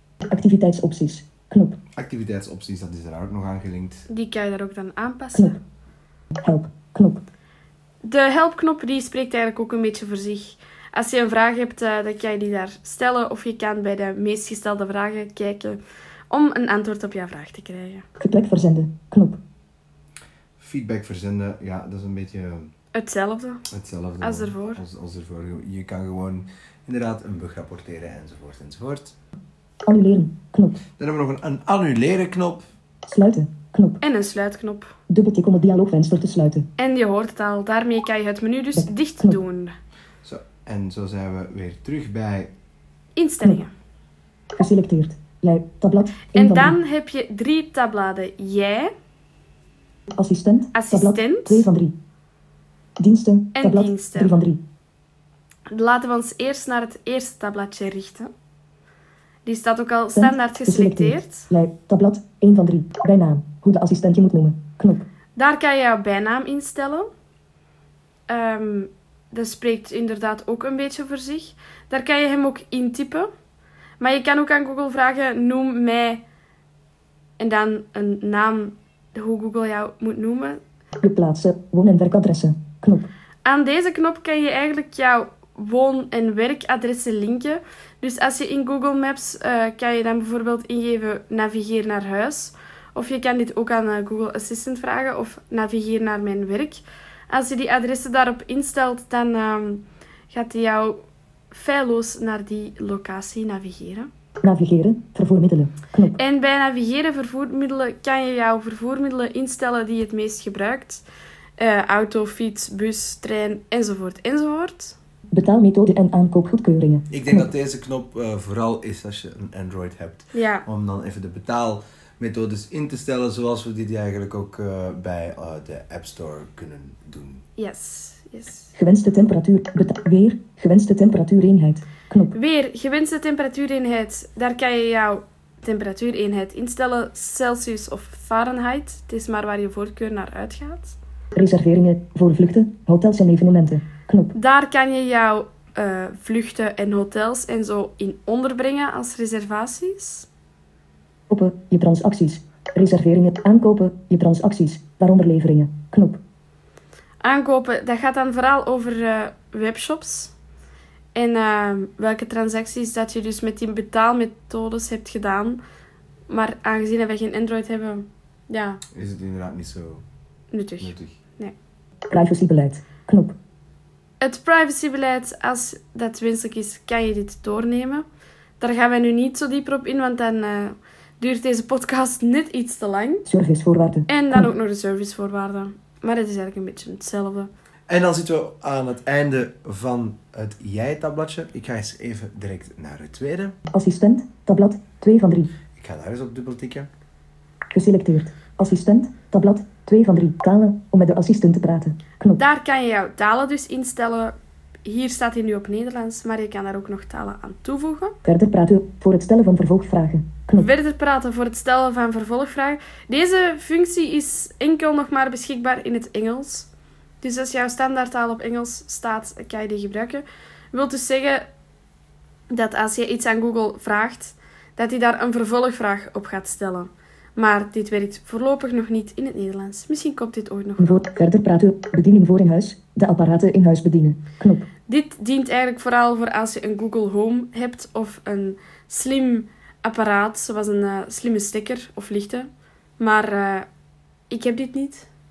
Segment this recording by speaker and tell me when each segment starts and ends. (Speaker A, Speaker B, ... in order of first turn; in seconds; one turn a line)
Speaker A: 0.2-1.8
Speaker B: 2.0-4.1
Speaker C: 4.1-5.6
Speaker A: 6.4-7.2
Speaker C: 8.0-15.8
Speaker C: 16.3-18.1
Speaker A: 18.2-19.4
Speaker B: 20.6-22.7
Speaker C: 22.9-23.6
Speaker B: 23.7-29.1
Speaker C: 24.2-24.8
Speaker A: 29.9-30.8
Speaker B: 31.0-32.7
Speaker A: 33.1-34.0
Speaker C: 34.0-34.9
Speaker A: 35.1-36.7
Speaker C: 36.8-39.7
Speaker A: 38.7-39.4
Speaker B: 40.2-42.5
Speaker C: 43.2-43.7
Speaker A: 44.5-46.8
Speaker C: 46.3-48.9
Speaker A: 50.1-51.9
Speaker C: 50.7-51.7
Speaker A: 53.0-54.6
Speaker C: 53.5-54.4
Speaker C: 55.7-58.3
Speaker C: 59.5-61.5
Speaker A: 60.1-65.0
Speaker C: 65.4-67.1
Speaker C: 68.3-73.3
Speaker C: 74.0-76.2
Speaker C: 77.4-80.6
Speaker A: 81.0-83.1
Speaker C: 83.5-104.1
Speaker A: 104.4-106.2
Speaker C: 106.2-111.0
Speaker C: 111.6-115.0
Speaker A: 115.3-117.5
Speaker B: 117.1-127.4
Speaker C: 120.3-120.7
Speaker C: 127.6-128.7
Speaker A: 128.8-132.3
Speaker C: 132.3-141.0
Speaker A: 141.3-144.3
Speaker C: 144.3-150.3
Speaker A: 151.3-156.2
Speaker C: 157.2-160.3
Speaker C: 161.2-165.6
Speaker C: 166.3-168.8
Speaker B: 168.9-170.0
Speaker C: 170.5-171.5
Speaker B: 170.8-171.2
Speaker A: 172.1-173.4
Speaker C: 174.2-178.1
Speaker C: 178.6-183.3
Speaker A: 183.3-184.5
Speaker C: 184.1-187.5
Speaker B: 187.9-193.6
Speaker A: 193.7-195.5
Speaker B: 195.8-196.9
Speaker A: 197.7-202.4
Speaker C: 202.4-204.3
Speaker C: 204.8-208.2
Speaker A: 208.2-210.7
Speaker C: 210.6-216.7
Speaker C: 217.2-221.5
Speaker C: 222.5-231.0
Speaker A: 230.8-234.7
Speaker C: 234.9-243.7
Speaker C: 244.3-245.1